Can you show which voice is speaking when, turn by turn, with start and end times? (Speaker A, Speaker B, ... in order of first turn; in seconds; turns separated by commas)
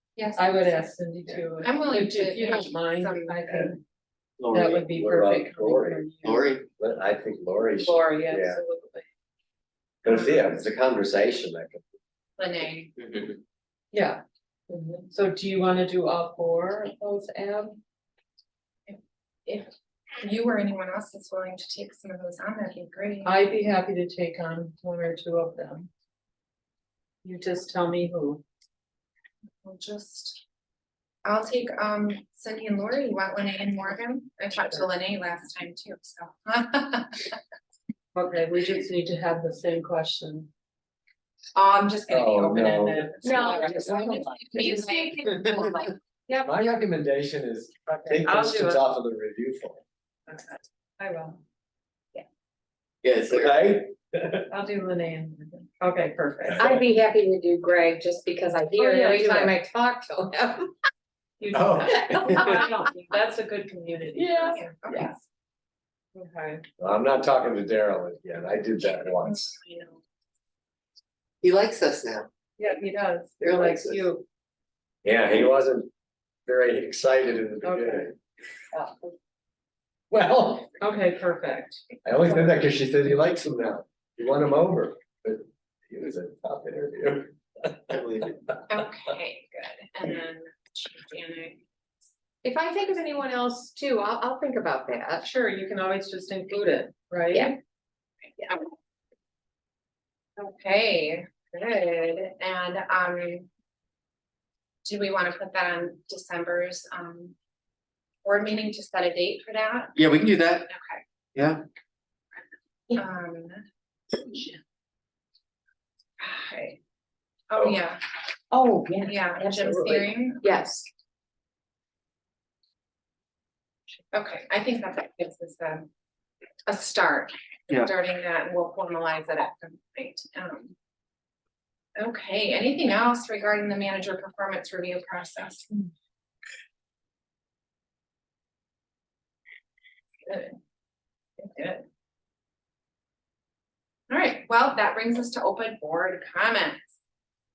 Speaker A: 0.2-0.9, Speaker B: 0.3-3.8, Speaker A: 1.6-3.7, Speaker C: 4.4-4.9, Speaker B: 4.5-6.5, Speaker D: 4.9-6.0, Speaker C: 6.2-6.7, Speaker D: 6.8-8.6, Speaker B: 7.8-9.1, Speaker D: 10.0-11.8, Speaker A: 10.1-10.5, Speaker A: 12.4-12.9, Speaker C: 13.0-13.4, Speaker B: 13.9-14.2, Speaker E: 14.7-15.0, Speaker B: 15.1-17.8, Speaker A: 18.9-23.4, Speaker B: 23.2-25.9, Speaker B: 27.2-28.4, Speaker A: 29.6-30.4, Speaker A: 31.2-37.4, Speaker B: 38.1-40.5, Speaker A: 41.5-45.1, Speaker D: 42.1-43.1, Speaker B: 43.0-44.1, Speaker E: 43.2-46.6, Speaker D: 43.7-44.4, Speaker D: 46.4-49.8, Speaker B: 48.2-48.8, Speaker B: 50.3-51.4, Speaker C: 53.0-53.5, Speaker D: 53.3-54.5, Speaker B: 54.5-56.7, Speaker E: 56.6-60.7, Speaker B: 58.8-59.5, Speaker B: 61.4-64.7, Speaker D: 61.5-62.7, Speaker E: 61.9-62.9, Speaker E: 64.2-65.1, Speaker A: 64.5-65.2, Speaker B: 66.1-66.6, Speaker D: 66.8-69.5, Speaker A: 69.2-70.0, Speaker C: 71.4-72.3, Speaker B: 72.6-74.2, Speaker C: 73.4-74.0, Speaker D: 75.0-75.9, Speaker D: 76.5-78.1, Speaker B: 77.6-78.1, Speaker D: 80.1-80.8, Speaker B: 80.8-81.8, Speaker D: 82.0-88.4, Speaker C: 87.9-88.3, Speaker A: 88.7-91.6, Speaker E: 92.4-95.3, Speaker B: 95.2-97.5, Speaker A: 98.4-98.7, Speaker A: 100.4-103.5, Speaker A: 104.8-107.3, Speaker A: 108.2-110.0, Speaker C: 110.0-110.7, Speaker A: 110.7-111.0, Speaker C: 111.3-111.6, Speaker A: 112.9-113.6, Speaker A: 116.2-116.8, Speaker A: 117.5-118.0, Speaker E: 118.5-120.8, Speaker A: 119.0-120.5, Speaker A: 124.1-125.9, Speaker A: 126.7-130.7, Speaker A: 132.0-135.7, Speaker A: 140.2-140.6, Speaker A: 141.4-141.8, Speaker A: 144.1-146.9